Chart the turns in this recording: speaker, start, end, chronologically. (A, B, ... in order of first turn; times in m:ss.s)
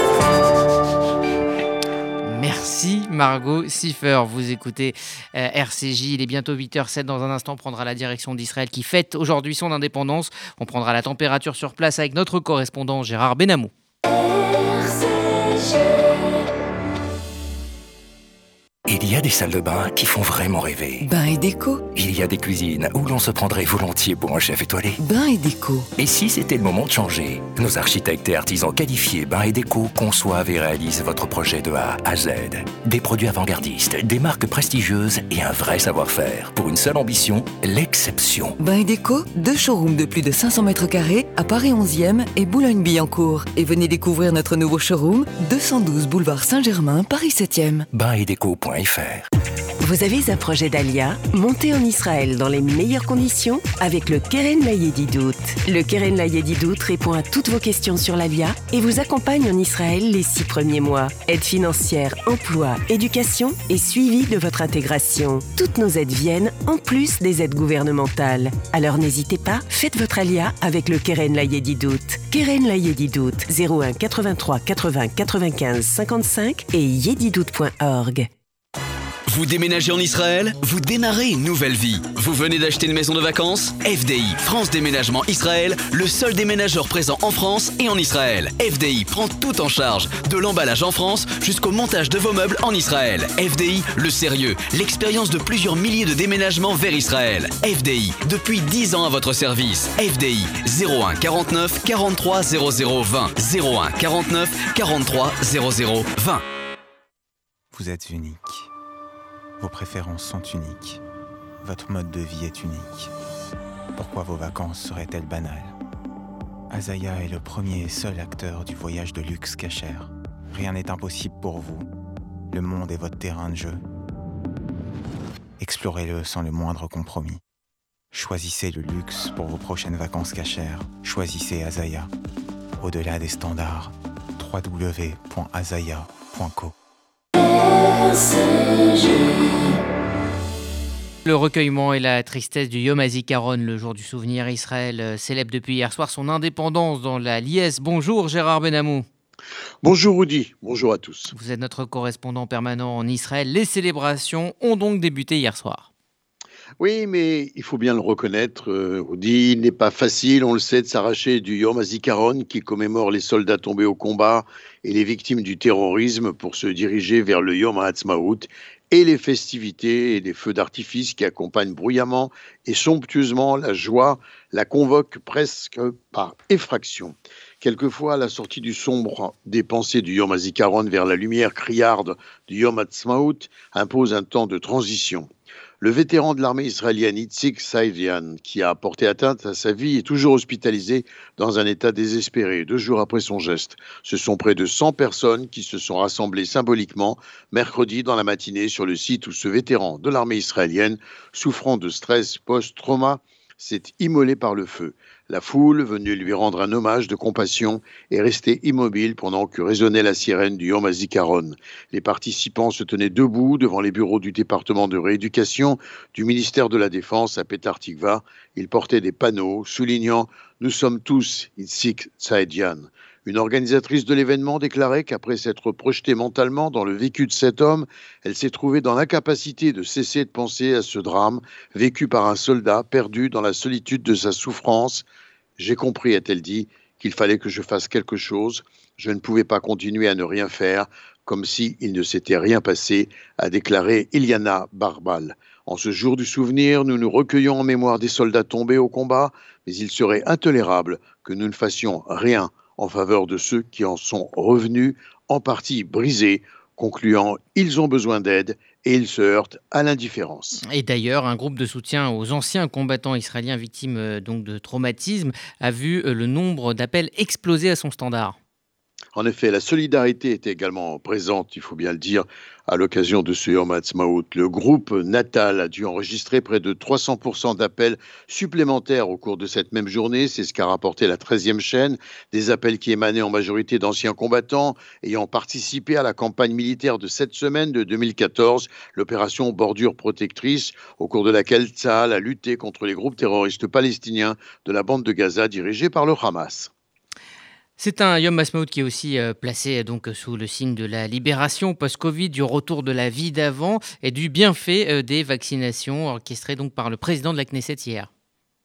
0:02.2-0:13.7 A
0:18.9-0:21.1 B
0:21.0-0:21.9 C
0:21.9-0:25.0 B
0:25.0-0:25.9 C
0:26.0-0:38.6 B
0:38.6-0:47.9 C
0:47.9-0:49.3 B
0:49.8-1:18.3 D
1:19.3-1:46.4 E
1:47.7-1:48.7 F
1:49.6-1:51.0 F
1:51.6-1:53.1 F
1:53.9-1:55.7 F
1:56.7-2:01.9 F
2:02.5-2:03.8 F
2:05.6-2:07.4 F
2:08.1-2:12.1 F
2:12.8-2:16.7 F
2:21.2-2:29.0 A
2:29.8-2:31.3 G
2:31.3-2:35.9 A
2:36.8-3:05.3 G
3:05.8-3:55.0 G
3:55.6-4:20.6 G
4:20.6-4:28.4 A
4:29.1-4:56.7 G
4:57.8-5:08.1 A